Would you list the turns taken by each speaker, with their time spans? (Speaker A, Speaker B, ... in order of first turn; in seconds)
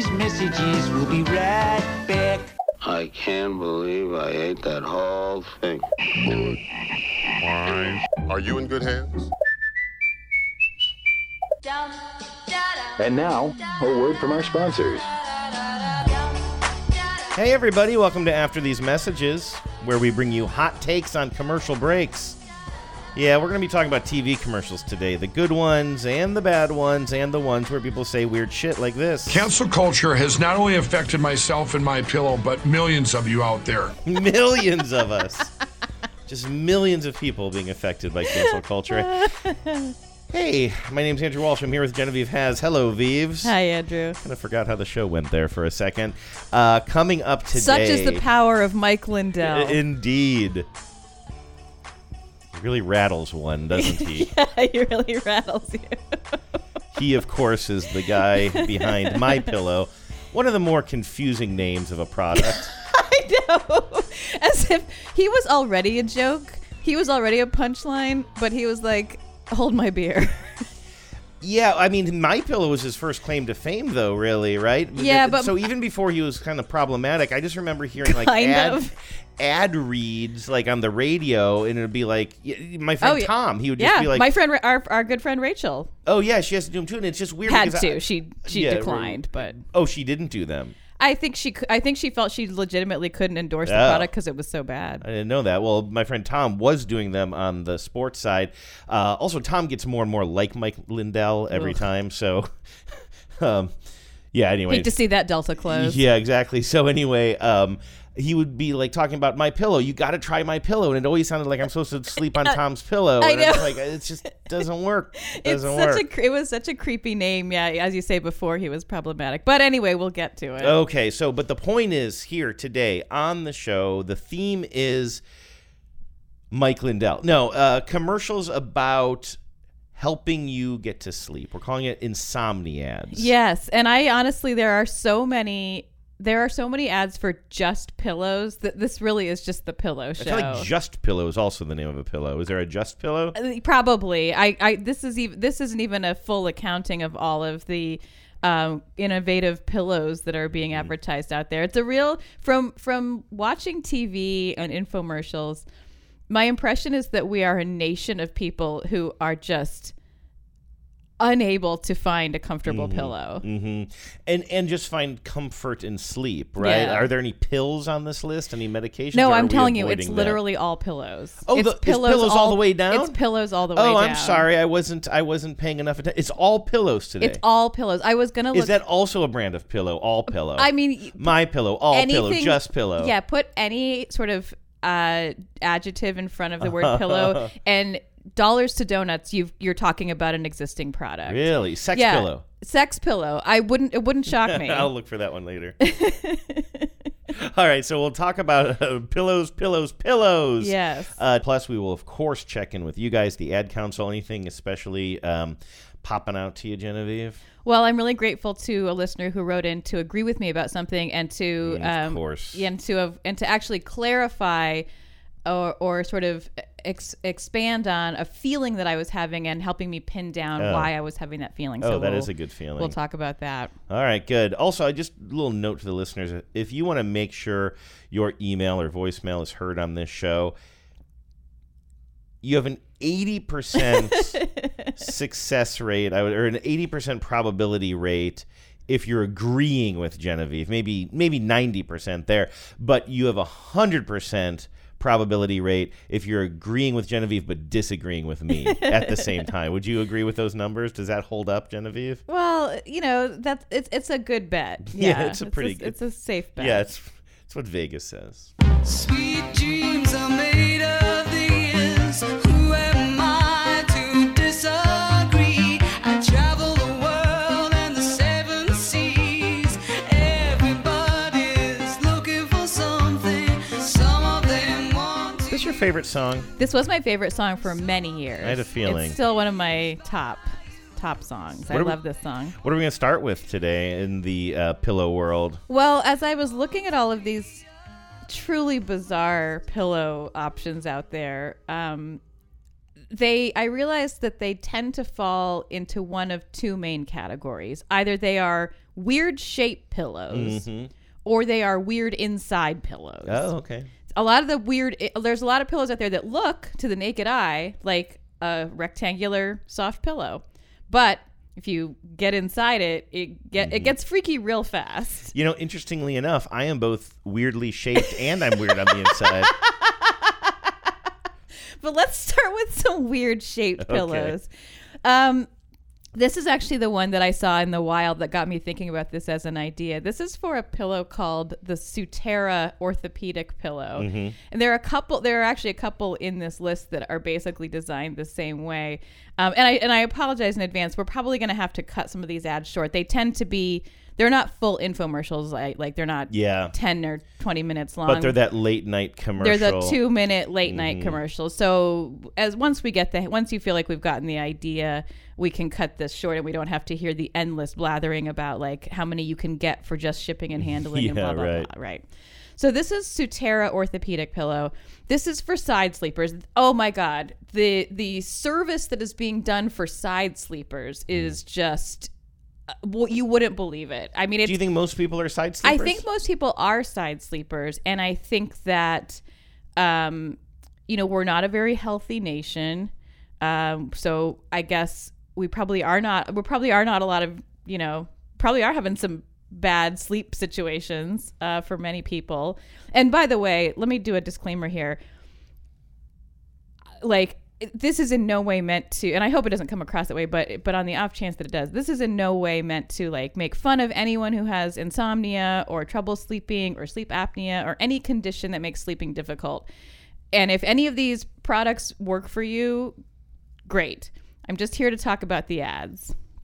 Speaker A: 2.8-5.8
Speaker B: 6.2-6.6, 7.5-9.3
Speaker C: 13.0-15.1
Speaker D: 17.3-22.4, 23.1-29.4, 34.0-35.5, 36.3-39.2, 40.3-43.5, 44.2-48.2, 49.4-50.7, 52.5-54.3, 56.9-62.7, 71.4-84.3, 86.1-90.8, 93.7-94.1, 95.0-102.5, 103.4-103.7, 104.3-104.9, 105.7-116.0, 120.6-125.2, 126.5-129.4, 130.0-133.3, 140.2-143.4, 162.7-170.4, 171.4-173.2, 173.8-177.4, 178.5-183.1, 186.6-187.5, 191.3-192.4, 194.3-195.8, 197.3-207.4, 211.6-212.7, 220.6-220.9, 221.8-222.9, 223.9-230.6, 232.4-234.4, 235.0-252.2, 254.9-255.9, 256.6-258.5, 275.5-276.5, 278.4-279.2, 281.7-282.0, 282.6-285.6, 300.3-300.9, 303.2-303.9, 313.6-313.9, 315.3-319.5, 323.8-324.3, 334.0-334.4, 346.3-346.7, 348.1-350.0, 350.7-351.2, 360.6-361.7, 374.4-376.0
Speaker E: 29.3-34.0
Speaker F: 38.4-39.9, 43.4-44.2, 47.5-49.8, 53.8-56.2, 58.5-59.5, 62.5-70.6, 75.0-75.6, 78.0-78.9, 83.0-85.9, 87.5-89.6, 91.0-95.0, 101.5-101.8, 104.7-106.0, 113.2-113.7, 115.3-120.8, 133.1-140.7, 143.3-155.7, 156.3-159.9, 161.2-163.4, 166.6-167.1, 169.1-174.5, 177.2-178.7, 180.6-181.3, 181.9-194.9, 195.8-196.9, 200.6-201.2, 207.6-214.9, 215.5-223.7, 233.9-234.9, 248.6-249.3, 252.3-256.9, 276.6-282.6, 285.7-287.6, 288.3-292.2, 293.1-300.6, 301.2-303.5, 304.1-315.3, 320.0-320.3, 321.8-324.5, 325.0-325.5, 326.1-348.4, 349.4-362.0, 362.6-372.1, 372.7-374.6, 375.6-379.2, 379.8-395.0, 397.0-409.7, 410.3-412.9, 413.7-416.1
Speaker G: 258.9-275.6